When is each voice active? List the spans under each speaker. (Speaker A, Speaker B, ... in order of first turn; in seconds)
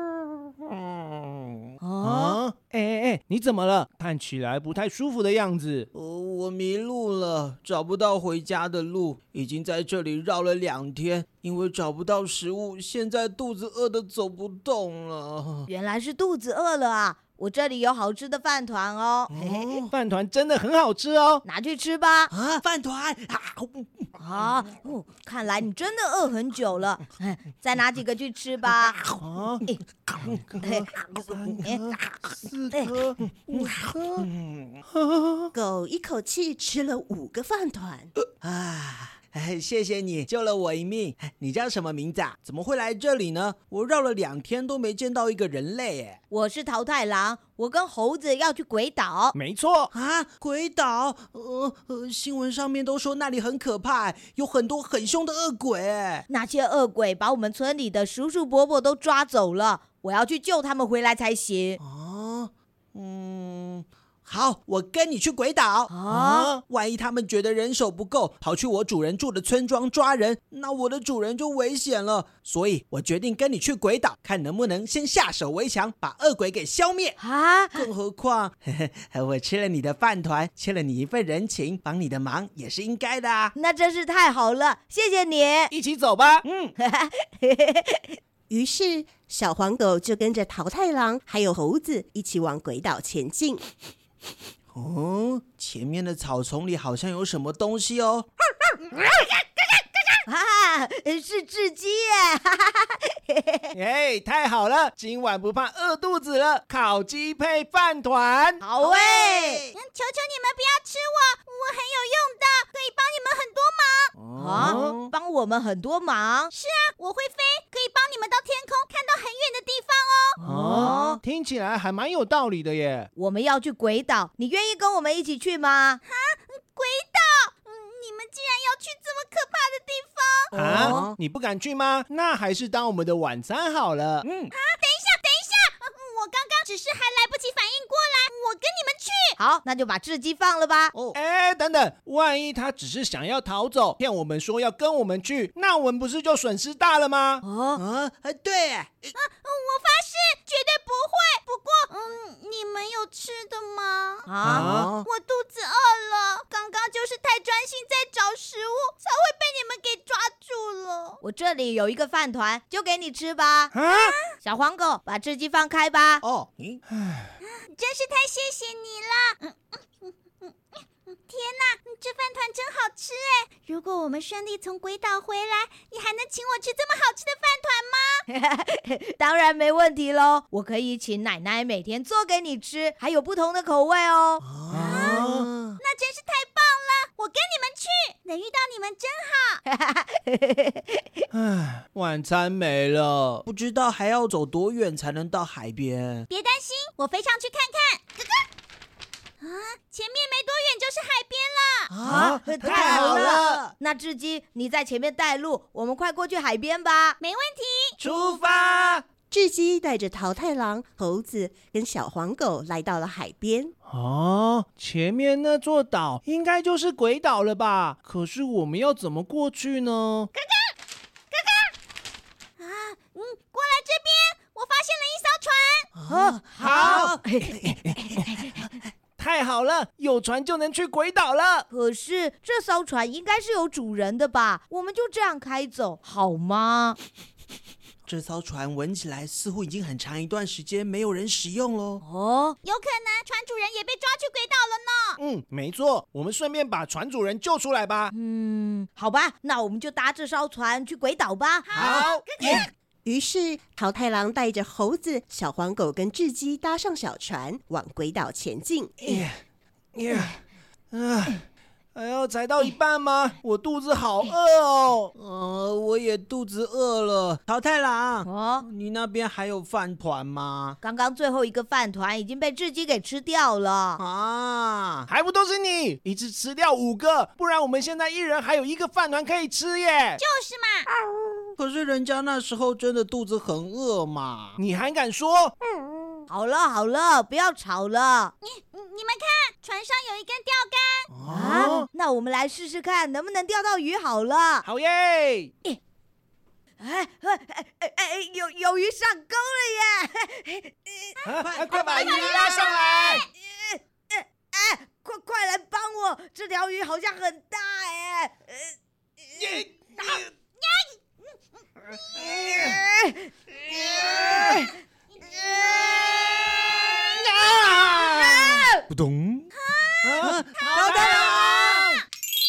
Speaker A: 0.7-1.4, 5.9-15.7, 19.3-19.9, 22.3-24.0, 30.1-34.8, 38.4-46.2, 49.9-56.2, 61.8-77.2, 77.7-83.5, 86.5-86.7, 94.7-98.3, 109.0-109.7, 130.8-131.2, 134.2-134.5, 147.8-149.1, 154.5-155.1, 166.2-166.8, 184.4-185.8, 193.4-196.2, 201.9-203.7, 225.9-227.9, 238.0-242.0, 265.2-270.8, 274.0-275.1, 281.1-284.6, 291.1-291.8, 301.4-302.6, 319.1-319.4, 320.0-322.0
Speaker B: 1.8-2.4, 15.7-19.7, 21.4-22.3, 24.2-29.0, 30.6-31.8, 46.3-49.3, 56.3-61.8, 65.9-66.5, 77.2-77.9, 83.5-85.7, 86.8-88.2, 100.3-103.7, 108.6-109.6, 114.3-116.5, 120.4-121.2, 123.1-126.0, 130.5-131.0, 139.4-140.9, 147.4-147.8, 154.3-154.7, 161.2-163.7, 164.4-166.2, 178.3-184.4, 189.7-191.0, 202.0-207.2, 226.1-228.5, 231.7-237.0, 242.0-242.6, 248.1-251.7, 268.2-268.6, 270.8-274.0, 286.3-288.3, 291.3-294.6, 296.8-301.2, 301.7-302.7, 303.4-308.8, 312.5-313.3, 314.3-314.6
Speaker C: 2.0-5.9, 19.9-21.4, 29.1-29.6, 31.3-31.6, 32.5-33.1, 49.3-49.9, 85.7-86.4, 103.7-108.6, 114.2-115.0, 120.4-123.1, 130.5-134.2, 141.1-147.4, 154.4-154.9, 163.7-164.1, 167.0-167.2, 184.7-185.5, 191.3-193.4, 202.0-203.6, 208.0-209.0, 213.9-220.3, 226.6-227.2, 229.2-231.7, 245.2-248.1, 251.7-252.7, 259.0-259.4, 259.9-260.4, 260.9-265.1, 275.1-280.2, 284.6-285.5, 291.3-291.9, 294.6-295.5, 301.2-303.2, 309.4-309.6, 312.1-312.8, 313.7-314.6, 317.2-318.6, 320.2-321.8
Speaker D: 35.5-38.1, 88.5-93.6, 209.3-213.7, 253.0-258.9
Speaker E: 109.7-114.1, 116.5-120.4, 126.0-130.5, 134.5-139.3, 149.1-154.3, 155.1-161.2, 163.8-164.2, 167.4-169.4, 171.3-178.2, 184.7-189.6, 196.3-198.0, 199.4-201.9, 207.2-208.0, 222.6-225.9, 242.6-245.2, 251.7-252.6, 280.2-280.9, 288.4-291.1, 301.7-303.2, 319.6-319.9, 320.6-320.9